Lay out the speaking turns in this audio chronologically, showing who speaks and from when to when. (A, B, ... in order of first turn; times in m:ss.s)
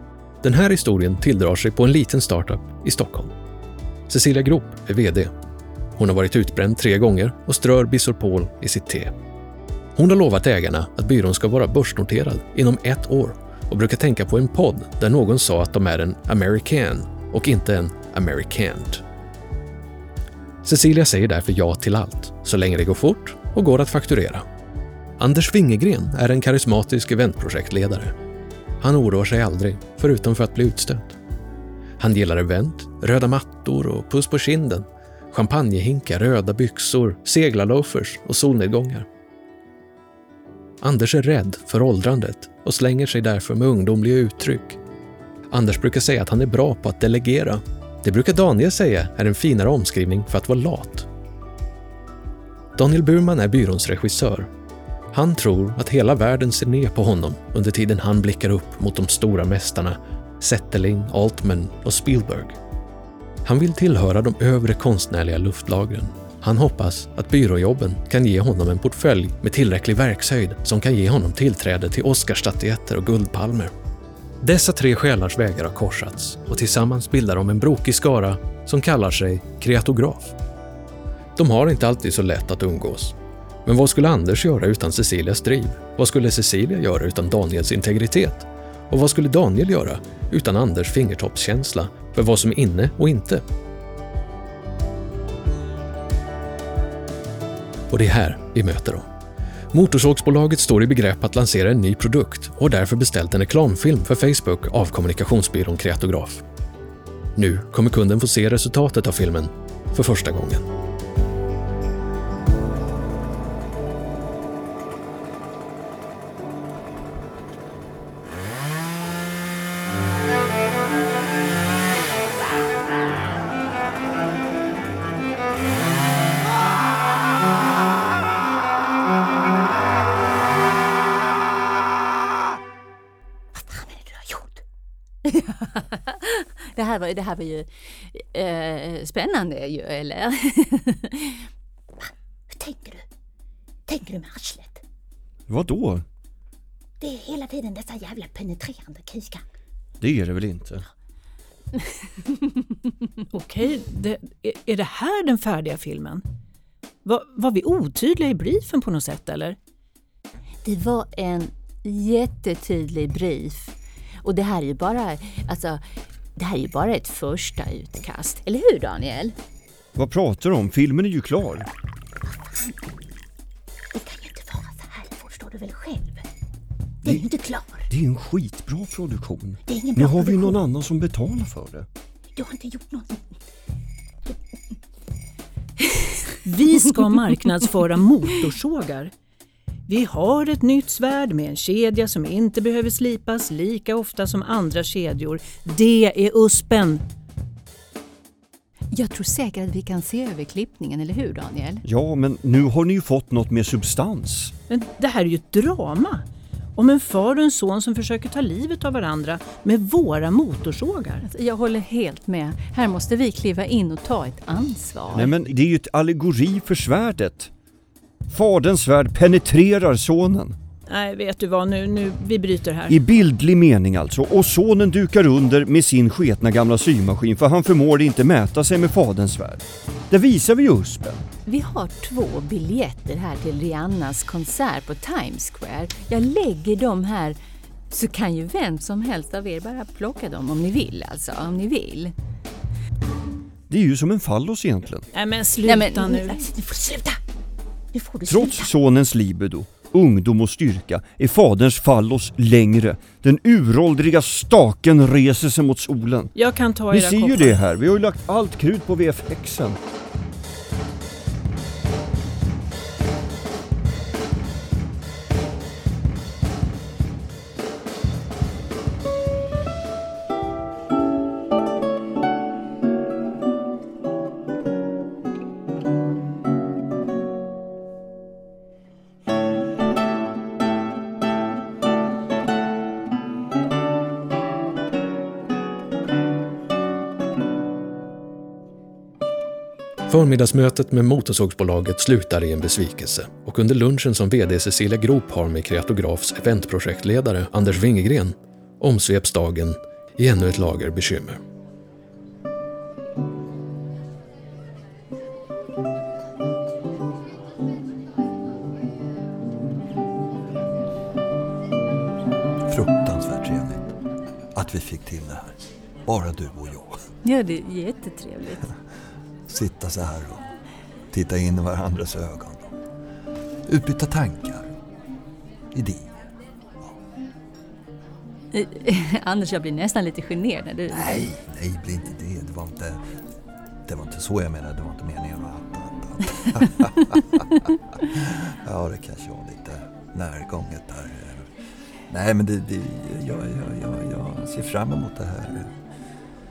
0:00.4-0:03.3 A
0:04.1-0:05.3 A
0:06.0-0:09.1 A
0:10.0-0:19.0 A
0:20.6-0:24.4 A
0:25.2-0:28.1 A
0:28.8-0:31.1 A
0:32.0-0:39.0 A
0:40.8-0:44.8 A
0:45.5-0:51.1 A
0:52.8-0:54.5 A
0:55.1-1:02.6 A
1:03.4-1:13.7 A
1:14.4-1:20.3 A
1:21.4-1:23.1 A
1:23.7-1:33.4 A
1:37.9-1:39.0 A
1:39.7-1:46.4 A
1:47.4-1:50.6 A
2:13.6-2:14.6 B
2:15.2-2:21.5 C
2:22.5-2:23.1 B
2:23.9-2:24.8 B
2:25.5-2:26.0 D
2:27.0-2:29.4 B
2:30.0-2:30.8 D
2:33.3-2:36.2 E
2:37.0-2:39.6 E
2:40.6-2:45.8 C
2:46.4-2:49.3 C
2:50.0-2:51.7 D
2:52.4-2:52.7 B
2:53.9-2:56.2 B
2:57.0-2:57.9 B
2:57.9-3:01.9 D
2:59.6-3:00.6 B
3:02.3-3:03.3 B
3:06.4-3:09.1 E
3:09.9-3:17.0 E
3:18.9-3:21.8 C
3:21.8-3:24.5 D
3:24.7-3:26.2 E
3:26.8-3:31.2 E
3:31.2-3:35.3 C
3:35.1-3:37.5 D
3:38.3-3:40.6 D
3:40.9-3:43.0 E
3:42.9-3:51.2 D
3:51.4-3:57.4 C
3:57.9-4:02.1 C
4:03.7-4:05.1 D
4:05.1-4:06.4 E
4:05.6-4:06.4 C
4:06.2-4:07.2 B
4:07.9-4:08.7 B
4:08.2-4:16.3 D
4:16.3-4:17.6 E
4:16.9-4:19.8 D
4:50.1-5:01.4 A
5:12.7-5:13.9 F
5:14.6-5:15.5 F
5:16.1-5:17.0 F
5:17.2-5:18.6 C
5:19.5-5:20.5 F
5:21.1-5:22.7 F
5:23.7-5:24.7 F
5:25.7-5:26.1 F
5:28.5-5:31.2 C
5:30.9-5:33.0 F
5:33.9-5:41.5 F
5:42.1-5:45.7 F